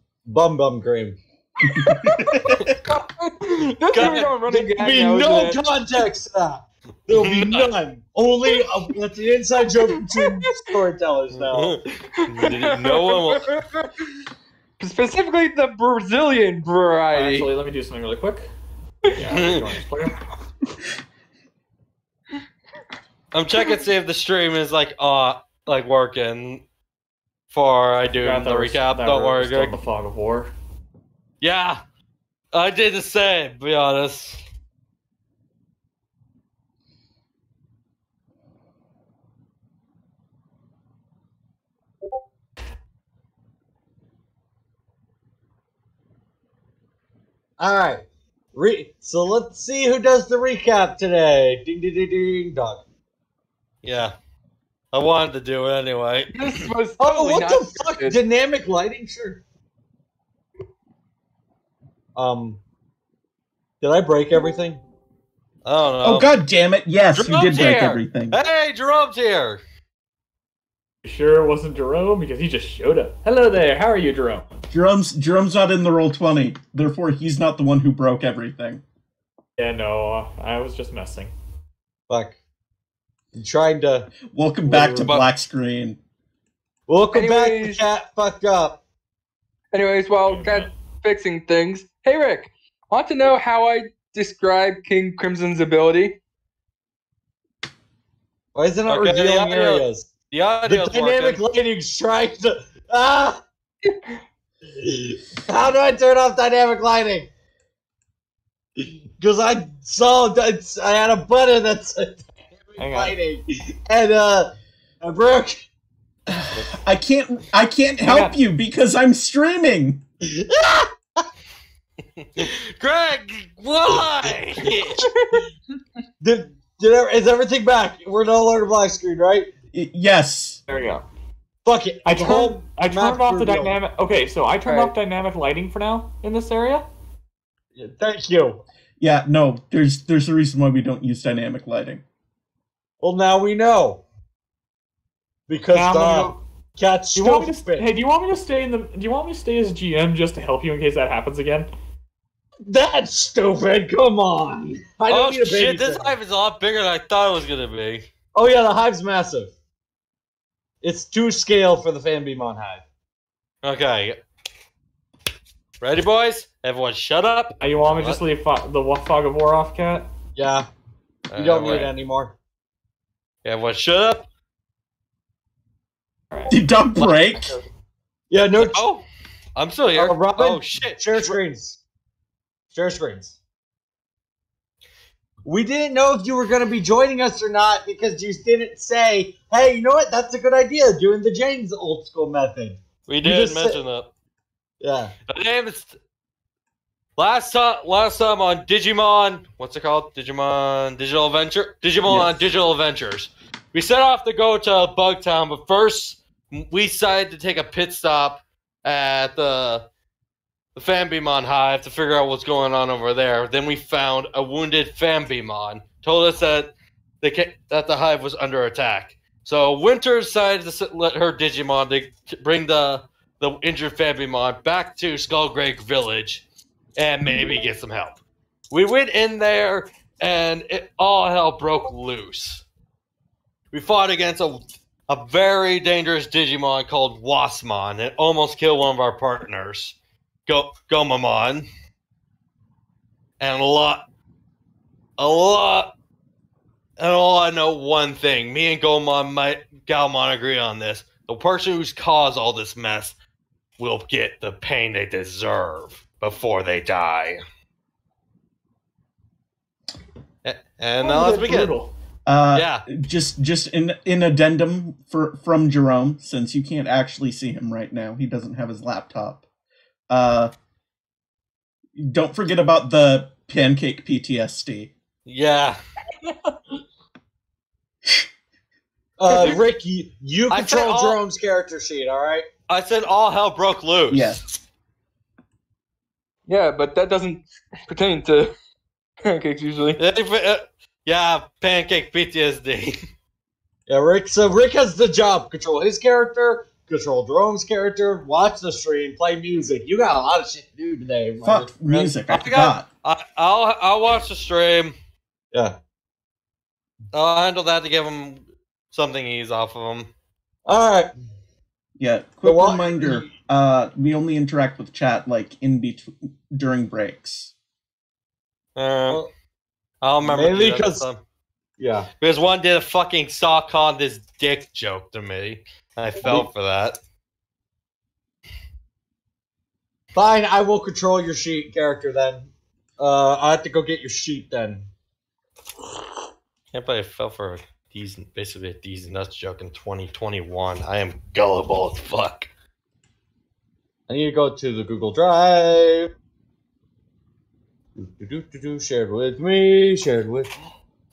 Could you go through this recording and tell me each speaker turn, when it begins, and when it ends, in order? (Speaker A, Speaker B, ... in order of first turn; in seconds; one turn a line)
Speaker A: 0.2-1.2
Speaker B: 1.6-2.8
Speaker C: 1.7-5.6
Speaker D: 3.9-4.3
Speaker A: 3.9-11.8
Speaker D: 7.1-7.7
Speaker D: 11.5-11.7
Speaker C: 12.2-13.9
Speaker D: 12.2-13.6
Speaker C: 14.8-17.5
Speaker E: 17.1-18.5
Speaker E: 19.1-20.2
Speaker D: 19.3-19.8
Speaker D: 23.3-26.6
Speaker D: 27.5-29.8
Speaker E: 28.1-30.5
Speaker D: 31.4-31.8
Speaker D: 32.5-34.4
Speaker A: 47.6-52.8
Speaker D: 53.8-54.1
Speaker D: 54.9-56.5
Speaker C: 56.3-58.2
Speaker A: 57.0-59.4
Speaker A: 62.1-62.6
Speaker A: 63.8-64.8
Speaker D: 65.6-66.3
Speaker B: 66.0-68.4
Speaker D: 67.1-69.6
Speaker E: 71.0-74.5
Speaker B: 74.7-78.8
Speaker E: 79.6-81.3
Speaker A: 82.1-82.4
Speaker A: 83.3-84.1
Speaker B: 84.3-86.0
Speaker D: 84.8-85.3
Speaker A: 86.9-88.8
Speaker C: 87.1-87.8
Speaker C: 89.7-96.1
Speaker E: 90.2-90.7
Speaker A: 98.5-100.1
Speaker D: 98.9-101.4
Speaker A: 100.6-103.4
Speaker A: 104.7-107.3
Speaker A: 108.8-114.5
Speaker E: 112.8-113.1
Speaker A: 115.0-115.6
Speaker B: 116.3-120.0
Speaker E: 118.0-118.3
Speaker A: 120.2-120.9
Speaker D: 122.2-125.1
Speaker C: 125.1-125.4
Speaker A: 126.2-129.5
Speaker B: 129.7-130.6
Speaker E: 130.7-131.0
Speaker A: 131.6-133.8
Speaker E: 132.1-136.8
Speaker C: 134.7-134.9
Speaker A: 137.8-138.6
Speaker B: 139.0-142.0
Speaker A: 143.0-144.0
Speaker A: 145.5-147.9
Speaker E: 145.7-146.4
Speaker E: 147.2-151.7
Speaker A: 152.6-156.1
Speaker D: 155.1-158.1
Speaker A: 158.3-159.5
Speaker A: 160.8-162.8
Speaker D: 163.6-164.2
Speaker D: 165.8-168.2
Speaker E: 167.6-170.1
Speaker A: 170.3-170.7
Speaker D: 171.3-171.9
Speaker A: 171.3-172.3
Speaker D: 173.4-174.2
Speaker E: 176.3-176.6
Speaker B: 176.5-177.5
Speaker D: 177.0-177.6
Speaker A: 178.3-178.8
Speaker D: 178.6-179.0
Speaker D: 179.6-181.4
Speaker A: 179.9-181.8
Speaker A: 182.7-183.3
Speaker A: 185.4-193.8
Speaker D: 193.1-194.1
Speaker A: 194.8-195.1
Speaker D: 195.3-196.0
Speaker D: 197.2-209.8
Speaker A: 202.1-202.3
Speaker D: 210.8-216.7
Speaker D: 217.2-226.4
Speaker D: 227.0-228.2
Speaker D: 228.7-232.6
Speaker D: 233.7-239.9
Speaker D: 240.5-241.7
Speaker D: 243.4-244.0
Speaker D: 245.2-245.9
Speaker D: 247.0-253.1
Speaker D: 253.8-257.4
Speaker D: 260.4-261.7
Speaker E: 261.0-261.9
Speaker B: 262.2-269.4
Speaker D: 262.5-262.8
Speaker B: 270.1-270.5
Speaker B: 271.9-274.9
Speaker D: 275.2-275.8
Speaker A: 279.2-282.5
Speaker D: 279.3-279.6
Speaker D: 280.5-281.2
Speaker D: 282.7-284.4
Speaker B: 284.1-284.4
Speaker C: 286.5-288.5
Speaker C: 289.2-290.0
Speaker D: 290.0-293.0
Speaker A: 293.9-301.9
Speaker B: 301.4-302.9
Speaker D: 302.0-304.9
Speaker D: 307.1-310.1
Speaker A: 310.6-311.1
Speaker B: 312.0-317.5
Speaker A: 312.4-313.3
Speaker D: 318.8-319.2
Speaker D: 320.0-321.2
Speaker A: 320.2-321.1
Speaker A: 321.8-322.1
Speaker D: 322.2-327.0
Speaker A: 330.1-334.9
Speaker D: 336.7-342.5
Speaker A: 344.1-346.1
Speaker A: 347.9-350.5